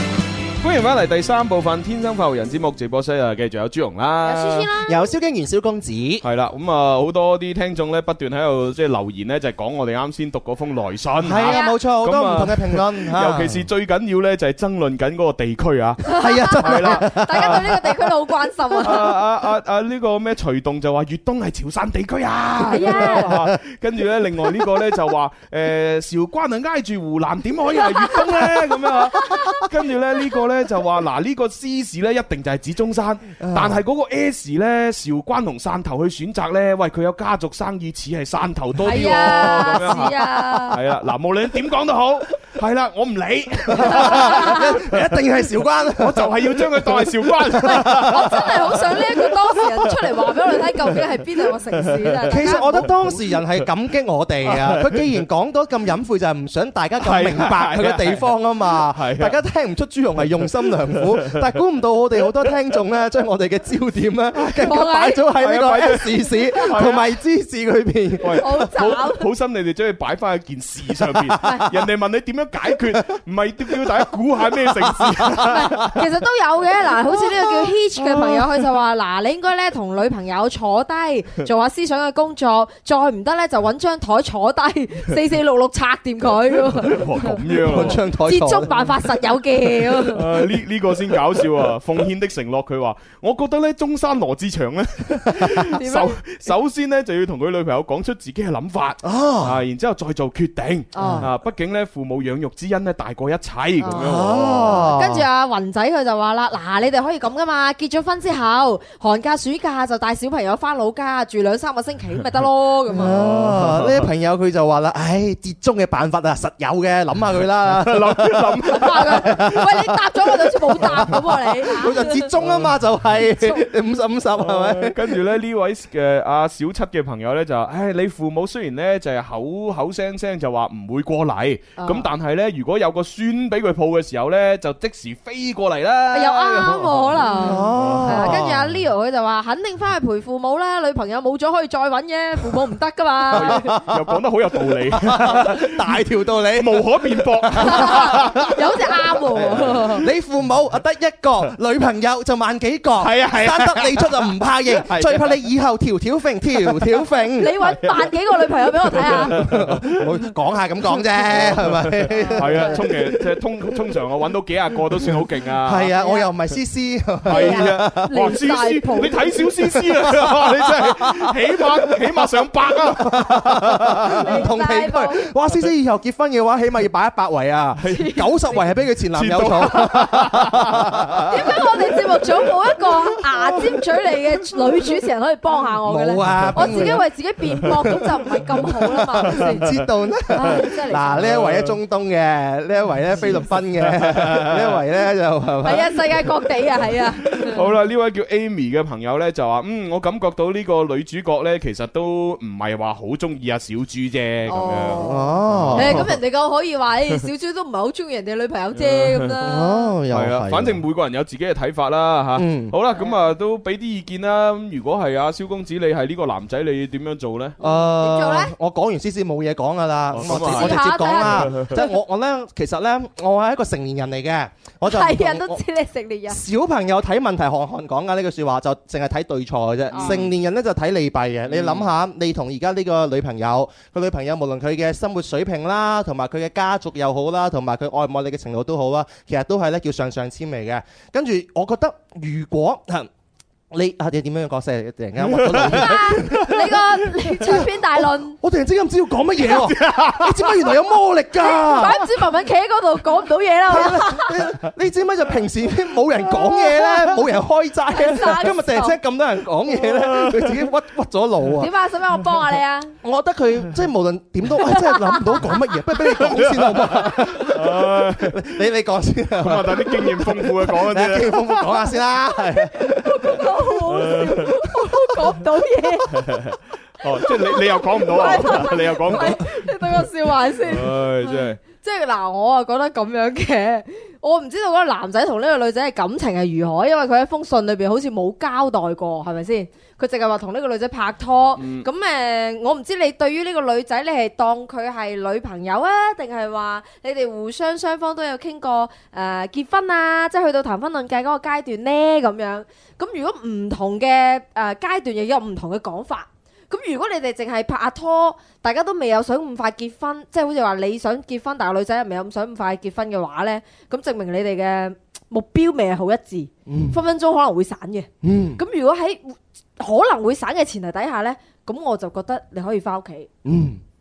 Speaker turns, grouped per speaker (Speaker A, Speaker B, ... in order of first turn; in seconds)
Speaker A: 0.6-4.7, 6.2-17.8, 18.8-45.3, 45.9-49.9, 52.0-53.2, 54.4-55.2, 57.0-59.4, 60.7-61.5, 64.3-64.8, 65.3-67.1, 68.2-76.0, 86.7-88.0, 90.1-105.0, 113.0-114.1, 117.7-119.5, 122.4-122.8, 124.3-138.7, 143.3-146.0, 146.5-148.6, 149.3-150.0, 153.0-155.3, 158.9-160.2, 161.2-165.9, 167.2-174.3, 177.8-178.1, 179.1-181.6, 186.3-186.9, 189.3-189.8, 191.2-191.8, 193.8-194.8, 197.4-206.2, 208.7-209.4, 210.1-217.6, 220.1-221.8, 229.9-230.3, 231.5-231.9, 245.2-246.6, 249.4-250.7, 259.8-260.6, 266.0-268.6, 269.4-271.6, 273.9-274.6, 276.1-279.5, 280.7-281.6, 291.6-291.9
Speaker B: 4.2-5.1, 11.4-11.8, 16.1-19.1, 22.6-23.3, 29.2-29.6, 38.8-40.8, 43.8-44.7, 47.6-52.9, 64.6-65.3, 66.3-66.9, 68.3-69.3, 71.4-71.7, 75.4-90.3, 95.5-96.2, 100.9-101.3, 103.8-113.1, 118.7-122.3, 131.8-132.1, 136.1-143.8, 147.6-150.0, 157.4-159.4, 162.1-162.8, 165.9-166.3, 167.2-169.4, 174.1-175.2, 177.8-178.6, 179.7-180.1, 181.3-189.6, 190.3-191.3, 195.6-197.6, 204.5-209.9, 217.6-218.5, 220.2-221.9, 224.8-226.4, 229.9-230.2, 245.5-248.4, 251.4-254.5, 256.2-257.2, 257.9-259.0, 261.6-262.9, 264.6-265.5, 271.9-276.4, 277.0-323.3
Speaker C: 4.8-6.2, 11.2-13.7, 16.1-17.7, 22.8-23.6, 33.4-33.8, 39.1-40.0, 43.7-48.5, 52.3-68.5, 74.6-76.0, 87.6-88.7, 99.0-99.6, 101.0-101.3, 103.9-105.2, 112.9-119.8, 120.8-125.2, 137.3-138.6, 143.3-144.2, 144.7-148.6, 149.6-157.6, 159.0-163.4, 165.0-168.4, 169.4-172.2, 172.9-181.3, 183.3-183.6, 185.8-187.0, 187.6-188.0, 189.1-196.3, 205.0-206.1, 209.4-210.8, 212.3-212.7, 217.6-225.6, 226.3-243.1, 243.7-252.0, 253.7-261.7, 263.0-273.5, 316.7-317.0, 318.2-318.6, 323.4-323.8